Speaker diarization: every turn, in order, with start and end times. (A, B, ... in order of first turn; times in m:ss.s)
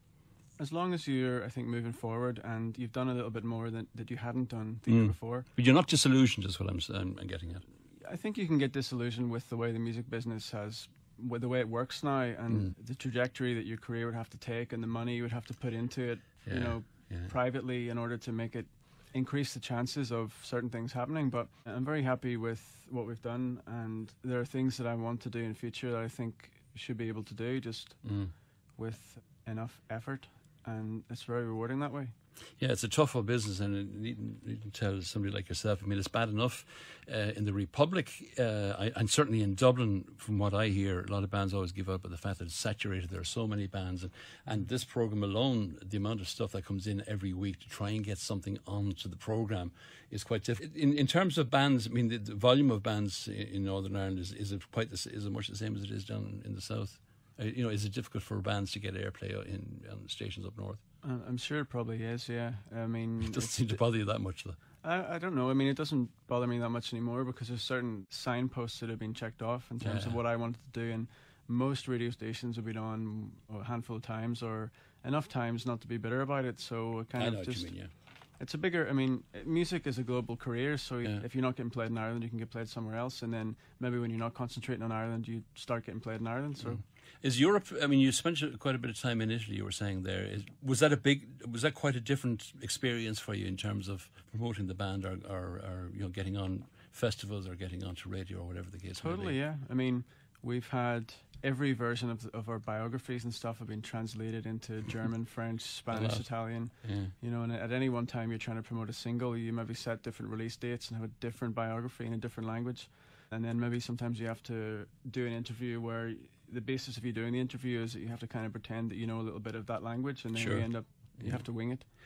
0:00.6-0:05.4 A
0:04.9-0:07.6 B
0:08.0-0:28.1 A
0:16.4-0:17.3 B
0:28.0-0:28.3 B
0:28.8-0:32.1 A
0:32.6-1:00.8 B
1:01.0-1:03.8 A
1:03.2-1:04.6 B
1:04.8-1:17.7 A
1:09.8-1:10.2 B
1:17.2-1:17.9 B
1:18.4-1:26.8 A
1:26.7-1:39.4 B
1:39.0-2:01.8 A
1:45.9-1:46.3 B
1:46.8-1:47.1 B
2:00.3-2:01.4 B